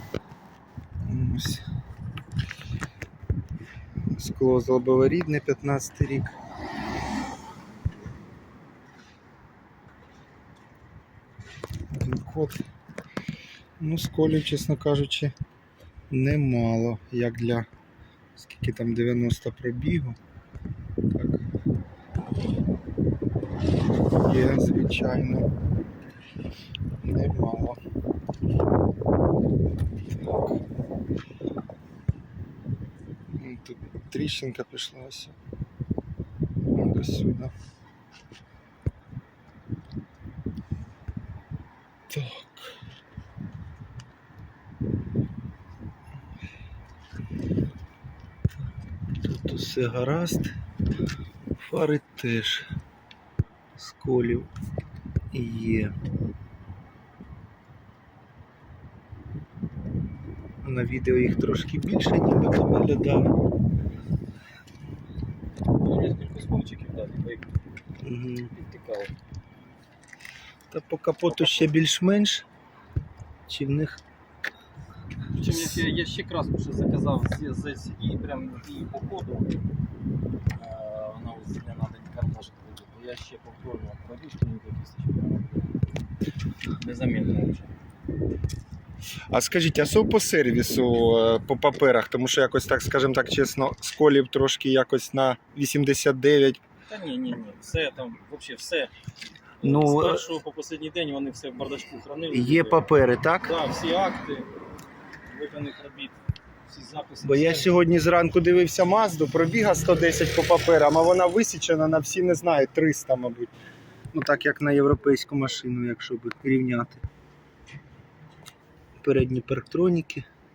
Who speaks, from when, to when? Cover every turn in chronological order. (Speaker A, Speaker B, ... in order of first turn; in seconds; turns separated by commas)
Speaker A: 1.1-1.6, Speaker A: 4.2-6.3, Speaker A: 11.9-12.6, Speaker A: 13.8-15.3, Speaker A: 16.1-17.7, Speaker A: 18.4-20.2, Speaker A: 21.1-21.4, Speaker A: 24.2-25.5, Speaker A: 27.0-27.8, Speaker A: 30.1-30.6, Speaker A: 33.3-35.4, Speaker A: 36.7-37.5, Speaker A: 42.1-42.7, Speaker A: 49.2-50.5, Speaker A: 51.5-52.7, Speaker A: 53.8-54.5, Speaker A: 55.3-55.9, Speaker A: 60.6-63.4, Speaker B: 65.8-67.5, Speaker A: 68.0-68.5, Speaker B: 68.5-69.1, Speaker A: 70.7-72.5, Speaker B: 71.2-71.7, Speaker A: 73.5-74.0, Speaker B: 75.3-79.6, Speaker A: 75.5-75.8, Speaker B: 80.5-85.8, Speaker B: 86.8-87.7, Speaker A: 89.3-96.6, Speaker B: 96.9-98.9, Speaker B: 99.6-102.9, Speaker A: 99.6-100.2, Speaker A: 102.3-103.5, Speaker B: 103.4-104.5, Speaker B: 105.2-107.8, Speaker A: 107.2-113.5, Speaker A: 114.1-117.0, Speaker A: 119.0-120.2